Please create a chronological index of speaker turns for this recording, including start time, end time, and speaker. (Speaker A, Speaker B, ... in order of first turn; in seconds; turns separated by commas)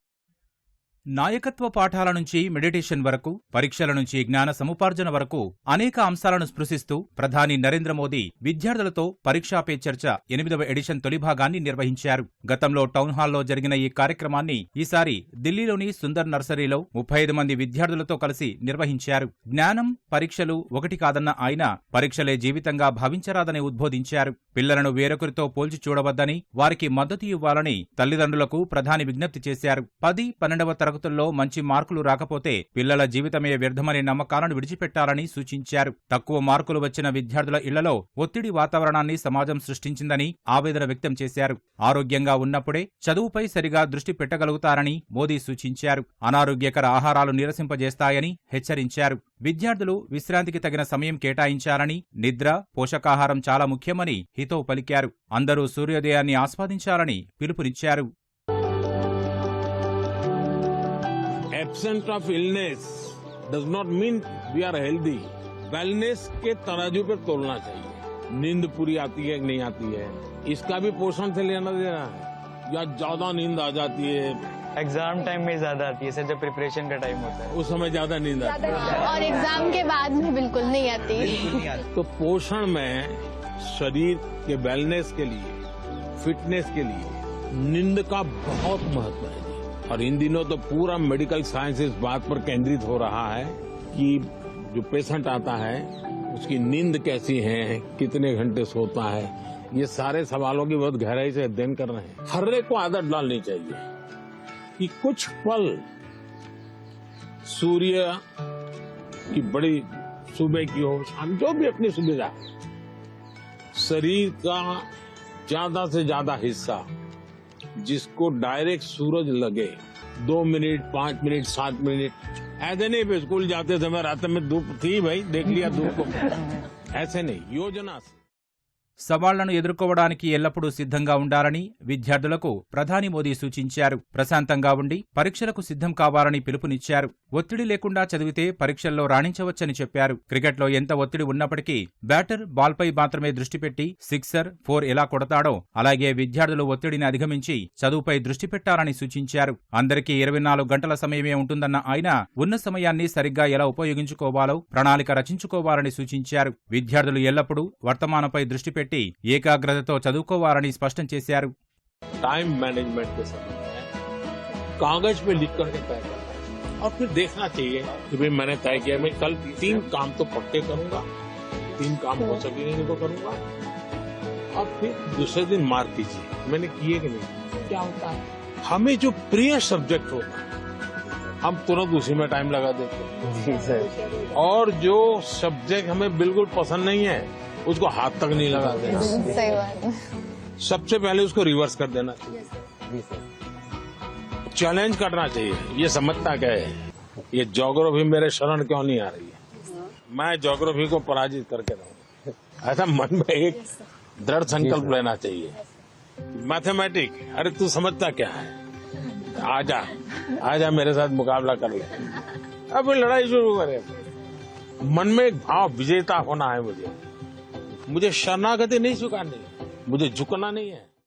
Speaker A: 1.2-58.1, Speaker B: 61.5-74.6, Speaker C: 74.8-77.5, Speaker B: 77.5-79.0, Speaker D: 78.9-81.8, Speaker B: 81.9-85.6, Speaker B: 86.2-103.8, Speaker B: 104.8-105.8, Speaker B: 107.5-108.2, Speaker B: 109.3-112.4, Speaker B: 113.8-114.9, Speaker B: 115.5-116.9, Speaker B: 117.8-126.4, Speaker B: 127.0-128.2, Speaker A: 129.0-161.5, Speaker B: 162.2-163.9, Speaker B: 164.8-171.1, Speaker B: 171.8-173.4, Speaker B: 174.5-180.5, Speaker B: 181.4-189.2, Speaker D: 188.9-190.0, Speaker B: 190.6-192.5, Speaker B: 194.5-199.4, Speaker B: 200.1-202.0, Speaker B: 202.6-205.6, Speaker B: 206.3-208.6, Speaker B: 209.1-214.0, Speaker B: 214.8-217.0, Speaker B: 217.9-220.9